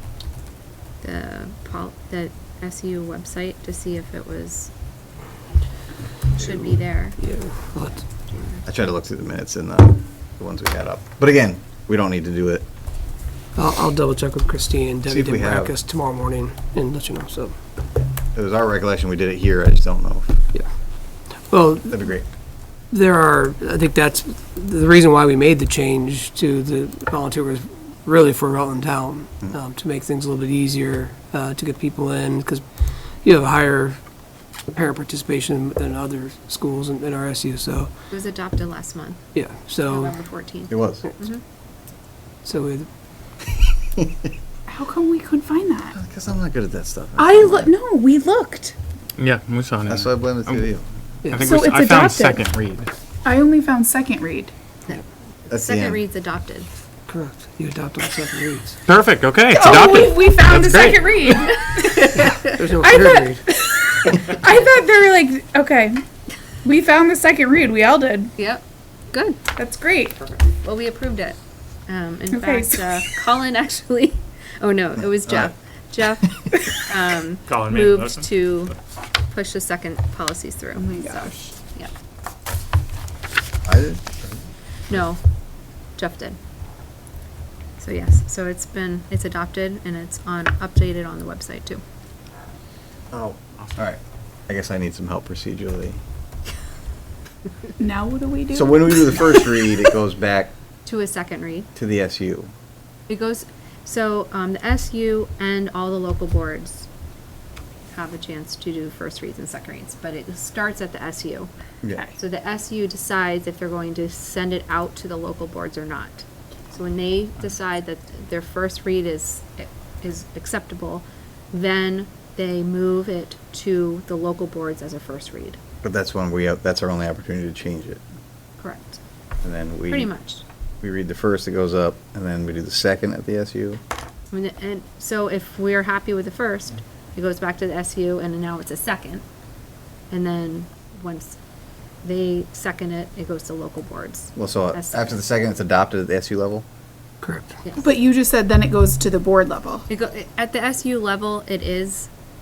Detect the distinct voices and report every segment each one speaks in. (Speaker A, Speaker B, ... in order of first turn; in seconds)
Speaker A: 1.0-4.7, 6.3-7.2, 38.1-39.2, 39.8-41.4, 54.9-56.7, 68.4-69.4, 70.5-78.7, 79.3-81.9, 84.9-85.2, 86.0-86.4, 87.8-91.8, 100.8-101.7, 103.1-106.9, 107.9-111.5, 112.2-125.6, 128.6-129.0, 129.9-130.4, 134.3-139.2, 140.1-141.4, 142.0-145.2, 149.9-152.1
Speaker B: 7.2-8.1, 13.6-17.6, 21.3-22.1, 22.9-32.7, 33.2-34.0, 34.6-37.9, 39.3-40.2, 42.4-42.9, 51.2-51.5, 57.1-58.8, 62.0-63.5, 147.2-147.6
Speaker C: 8.7-12.7, 15.1-15.8, 18.3-20.4, 21.9-22.2, 40.7-41.1, 45.9-47.7, 49.9-50.9, 55.5-56.0, 83.7-84.4, 93.1-96.0, 98.5-100.5, 101.8-102.5, 125.8-128.0, 129.4-130.1, 130.8-133.8, 144.4-146.7
Speaker D: 44.7-46.0, 47.2-48.8, 51.4-52.5, 53.2-54.5, 59.5-66.0, 66.6-68.3, 69.6-70.3, 72.3-73.1, 80.8-81.5, 97.8-99.0, 147.8-149.9
Speaker E: 49.2-50.7, 51.3-52.9, 58.9-61.1